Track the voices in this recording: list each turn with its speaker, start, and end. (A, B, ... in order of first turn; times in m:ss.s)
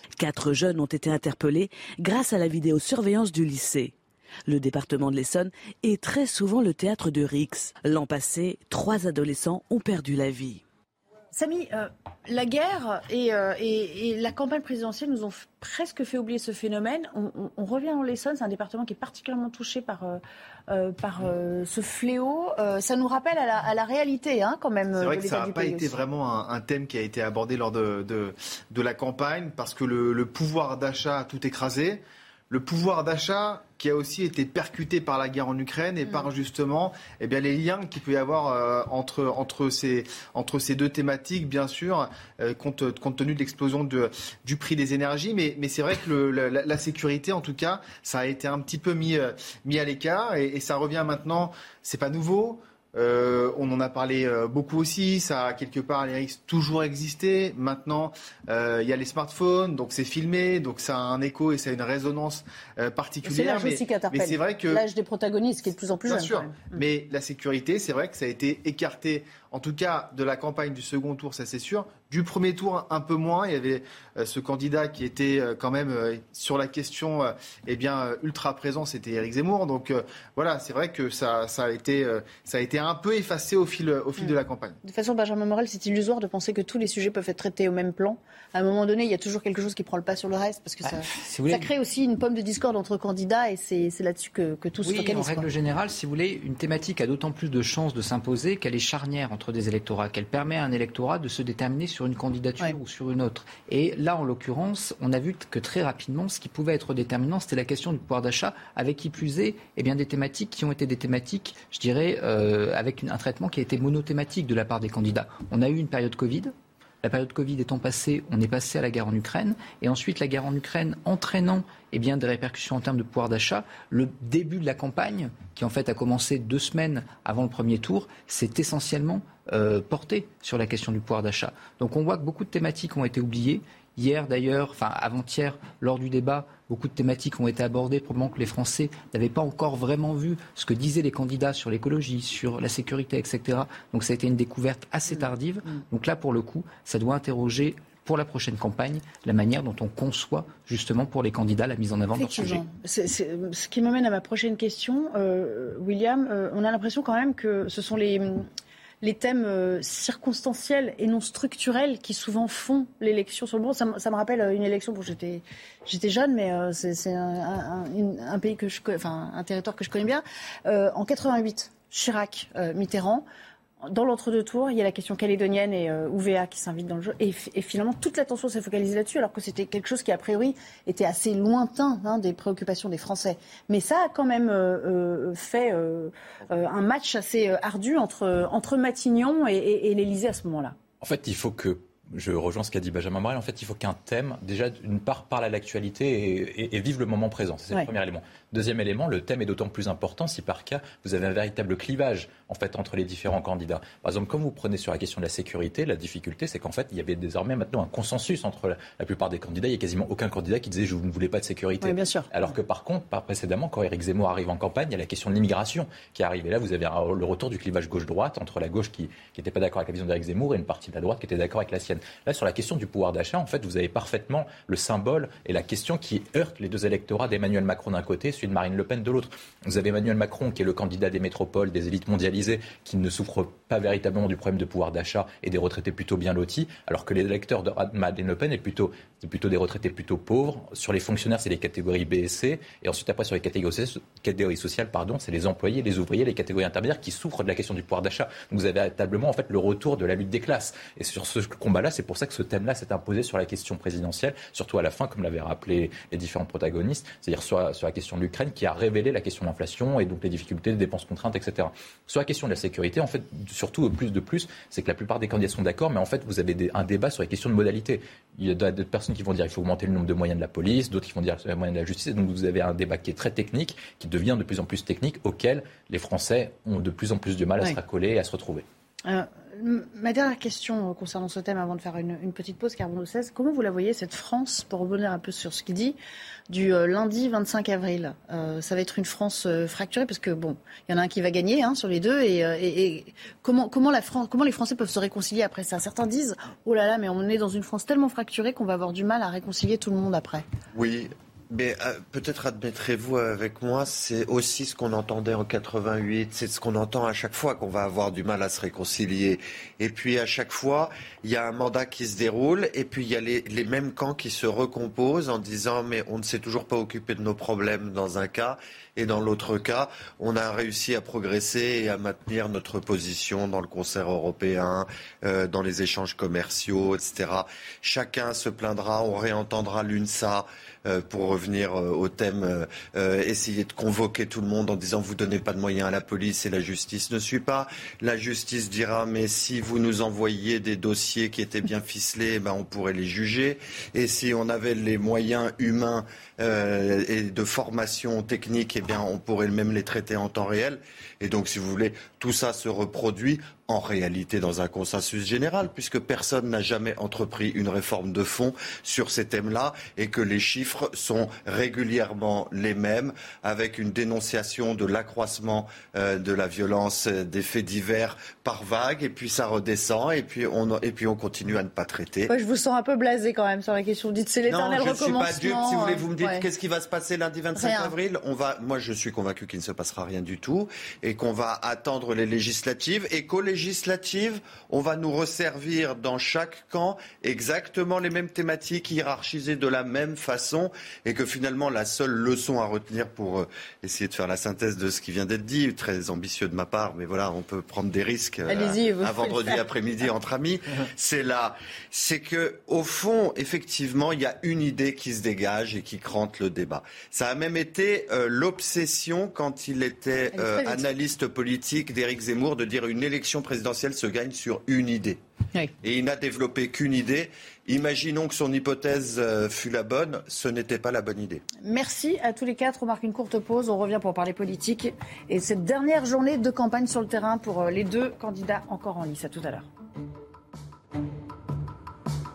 0:00.2-0:03.9 A
0:04.5-0:10.6 A
0:11.3-0:26.0 B
0:24.9-1:04.8 C
1:03.2-1:06.8 B
1:06.0-1:24.8 C
1:24.2-1:35.5 B
1:30.8-1:31.7 D
1:34.8-2:32.6 D
2:25.1-2:25.8 B
2:32.2-2:38.4 B
2:39.0-2:53.2 B
2:53.8-3:10.7 B
3:11.0-4:38.6 E
3:31.8-3:32.3 B
4:39.0-4:46.0 B
4:46.5-5:00.4 B
5:00.7-6:12.3 F
6:12.3-6:16.5 B
6:14.4-6:55.2 F
6:17.5-6:17.9 B
6:38.5-6:39.6 B
6:50.3-6:50.8 B
6:55.8-7:01.4 F
7:01.6-7:09.7 B